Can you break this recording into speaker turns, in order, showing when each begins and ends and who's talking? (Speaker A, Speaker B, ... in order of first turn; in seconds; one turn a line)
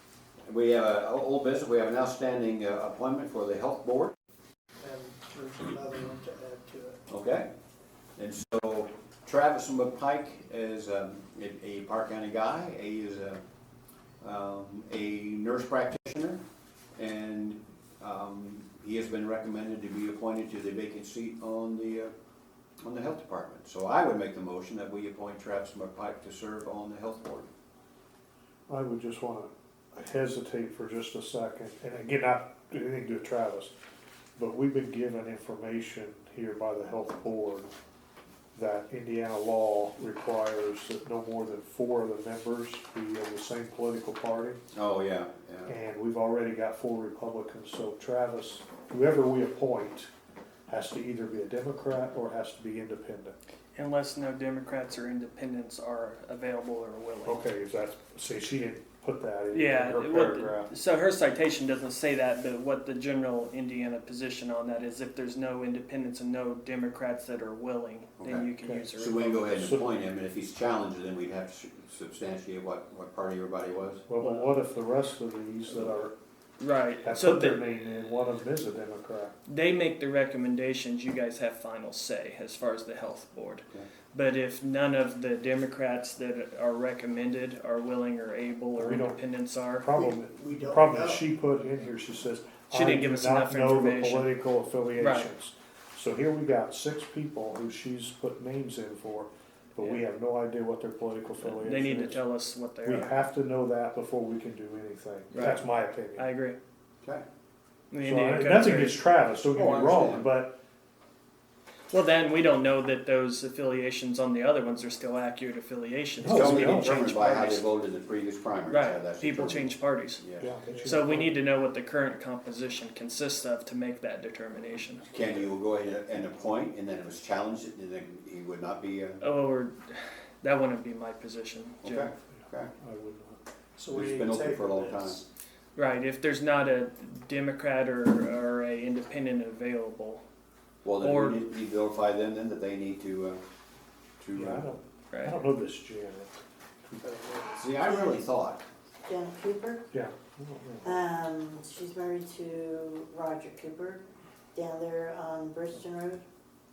Speaker A: 0.5-4.1
Speaker B: 4.8-7.0
Speaker A: 7.1-7.5
Speaker A: 8.2-13.4
Speaker A: 14.2-16.4
Speaker A: 17.0-22.1
Speaker A: 22.8-27.5
Speaker C: 28.7-33.7
Speaker C: 34.4-37.7
Speaker C: 38.5-44.6
Speaker A: 44.7-45.7
Speaker C: 45.7-50.1
Speaker C: 50.7-53.3
Speaker D: 53.8-57.5
Speaker C: 57.3-60.7
Speaker D: 59.5-69.5
Speaker A: 68.2-74.0
Speaker C: 69.5-70.0
Speaker C: 74.1-76.1
Speaker D: 74.2-74.6
Speaker D: 76.6-77.7
Speaker C: 77.0-79.3
Speaker D: 79.5-89.9
Speaker C: 88.8-89.2
Speaker C: 89.8-102.2
Speaker B: 89.9-91.3
Speaker D: 92.7-94.4
Speaker D: 95.0-95.3
Speaker D: 99.8-100.0
Speaker D: 101.4-103.2
Speaker C: 102.8-106.3
Speaker D: 105.3-105.6
Speaker D: 106.2-106.6
Speaker D: 107.9-109.0
Speaker C: 108.0-110.6
Speaker A: 109.5-110.3
Speaker D: 111.9-117.7
Speaker C: 116.2-116.9
Speaker A: 116.2-120.5
Speaker D: 118.7-120.2
Speaker C: 120.4-121.3
Speaker D: 120.8-125.1
Speaker A: 125.1-129.2
Speaker D: 129.2-132.1
Speaker A: 131.8-132.7
Speaker C: 132.3-133.4
Speaker B: 133.8-135.2
Speaker A: 133.9-135.2
Speaker D: 135.8-140.2
Speaker A: 140.8-143.4
Speaker D: 141.0-141.4
Speaker A: 144.2-144.7
Speaker C: 144.3-146.3
Speaker D: 145.1-145.4
Speaker B: 147.0-147.6
Speaker A: 147.6-148.6
Speaker E: 149.1-149.9
Speaker C: 149.9-151.0
Speaker E: 150.8-154.0
Speaker E: 154.5-156.2